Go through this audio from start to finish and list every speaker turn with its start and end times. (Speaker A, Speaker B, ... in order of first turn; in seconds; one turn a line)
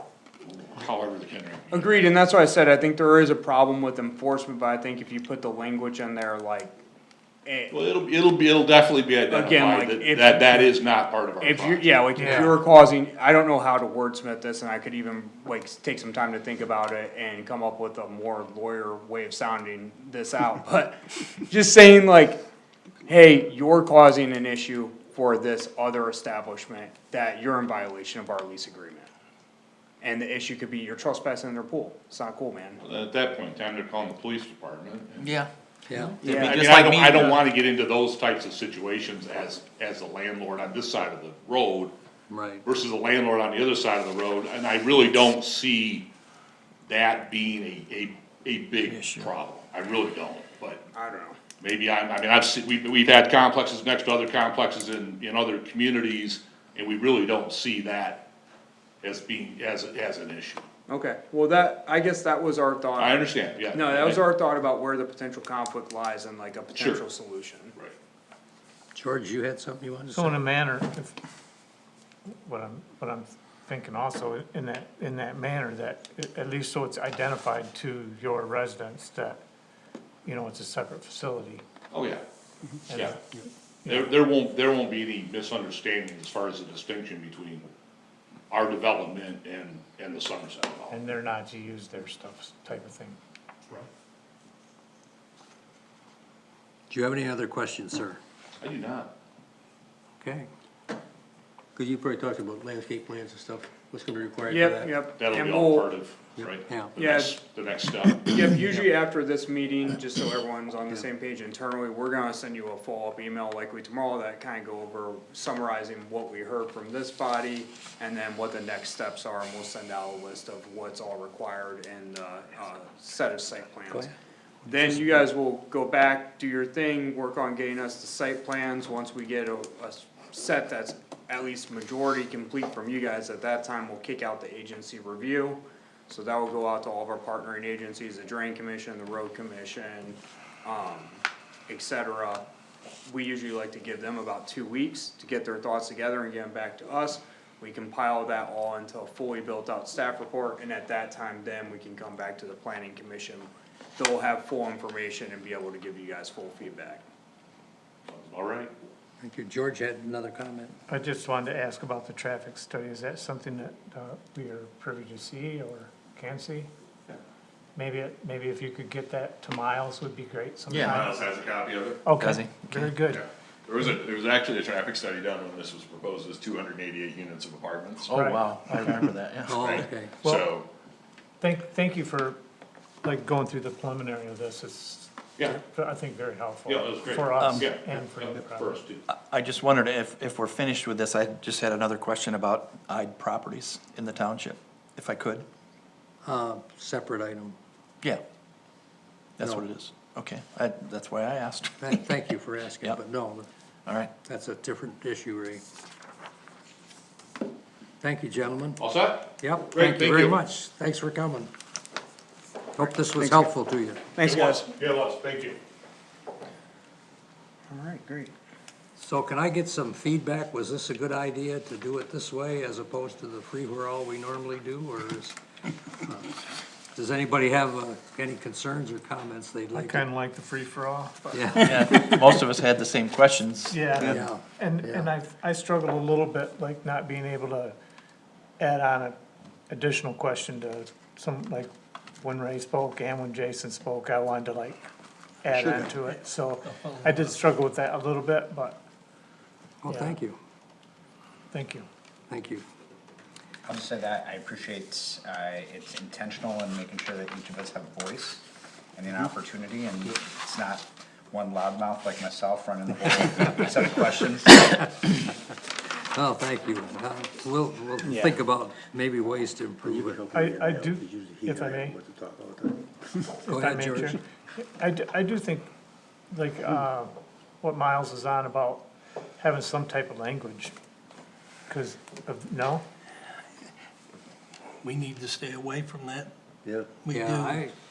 Speaker A: 0.5-2.1
Speaker B: 1.7-6.7
Speaker B: 7.4-7.7
Speaker A: 7.7-12.4
Speaker B: 9.3-10.7
Speaker B: 11.4-22.4
Speaker C: 12.2-12.6
Speaker D: 12.2-12.5
Speaker B: 23.1-29.1
Speaker B: 30.0-32.8
Speaker A: 32.8-35.3
Speaker E: 35.2-37.4
Speaker D: 35.9-36.2
Speaker B: 36.2-36.6
Speaker A: 36.2-41.9
Speaker D: 42.3-42.6
Speaker A: 42.6-46.1
Speaker A: 46.9-50.8
Speaker E: 48.8-49.3
Speaker B: 50.9-51.4
Speaker A: 51.6-58.3
Speaker A: 59.0-60.6
Speaker B: 60.9-67.7
Speaker A: 63.0-64.2
Speaker A: 66.7-67.0
Speaker D: 68.9-70.4
Speaker C: 70.1-71.1
Speaker C: 72.4-79.4
Speaker C: 80.2-81.6
Speaker A: 81.9-82.2
Speaker A: 82.9-83.2
Speaker C: 82.9-84.2
Speaker A: 83.9-87.7
Speaker A: 88.5-91.0
Speaker C: 90.9-93.2
Speaker D: 96.9-98.2
Speaker A: 98.6-99.1
Speaker D: 100.2-100.5
Speaker D: 101.8-104.9
Speaker B: 104.5-105.9
Speaker A: 105.2-108.4
Speaker D: 106.4-106.9
Speaker B: 107.0-107.3
Speaker B: 108.3-124.1
Speaker D: 108.5-108.9
Speaker B: 124.7-142.4
Speaker D: 124.8-125.0
Speaker B: 143.0-157.0
Speaker A: 158.1-158.7
Speaker D: 159.2-160.7
Speaker C: 160.9-166.7
Speaker C: 167.8-171.2
Speaker E: 170.7-171.0
Speaker F: 170.7-172.0
Speaker C: 172.0-173.2
Speaker E: 172.2-172.9
Speaker F: 173.1-178.1
Speaker E: 178.1-179.9
Speaker C: 178.1-179.1
Speaker D: 179.5-180.2
Speaker F: 179.5-180.7
Speaker C: 180.2-180.5
Speaker C: 181.4-182.4
Speaker C: 183.0-188.8
Speaker A: 186.7-189.0
Speaker E: 187.3-187.7
Speaker E: 189.1-195.4
Speaker D: 196.2-197.6
Speaker E: 199.4-202.0
Speaker D: 199.4-199.7
Speaker D: 201.8-203.5
Speaker E: 203.8-204.1
Speaker D: 204.2-205.6
Speaker D: 208.0-208.8
Speaker A: 208.8-210.4
Speaker D: 209.4-211.5
Speaker D: 212.7-214.0
Speaker B: 212.8-213.5
Speaker B: 214.1-214.6
Speaker A: 214.2-215.6
Speaker B: 217.7-218.3
Speaker D: 219.0-225.3
Speaker D: 226.0-226.3
Speaker D: 226.9-230.1
Speaker C: 229.7-231.9
Speaker D: 231.3-232.2
Speaker E: 231.6-234.2
Speaker C: 233.7-237.7
Speaker D: 234.0-235.1
Speaker C: 238.6-239.1
Speaker C: 239.7-241.7
Speaker C: 242.2-244.8
Speaker C: 245.4-248.8
Speaker D: 245.5-245.9
Speaker D: 249.8-250.4
Speaker C: 249.8-250.2
Speaker C: 251.5-251.8
Speaker D: 252.3-252.6
Speaker G: 253.6-258.4
Speaker G: 258.9-264.7
Speaker D: 264.5-265.2
Speaker D: 266.1-272.8
Speaker C: 269.9-272.0
Speaker D: 273.3-274.2
Speaker C: 273.4-275.7
Speaker C: 276.3-277.1
Speaker C: 277.6-278.9
Speaker C: 279.4-280.7
Speaker C: 281.7-282.8
Speaker H: 284.8-286.3
Speaker D: 286.6-287.7
Speaker H: 286.9-287.7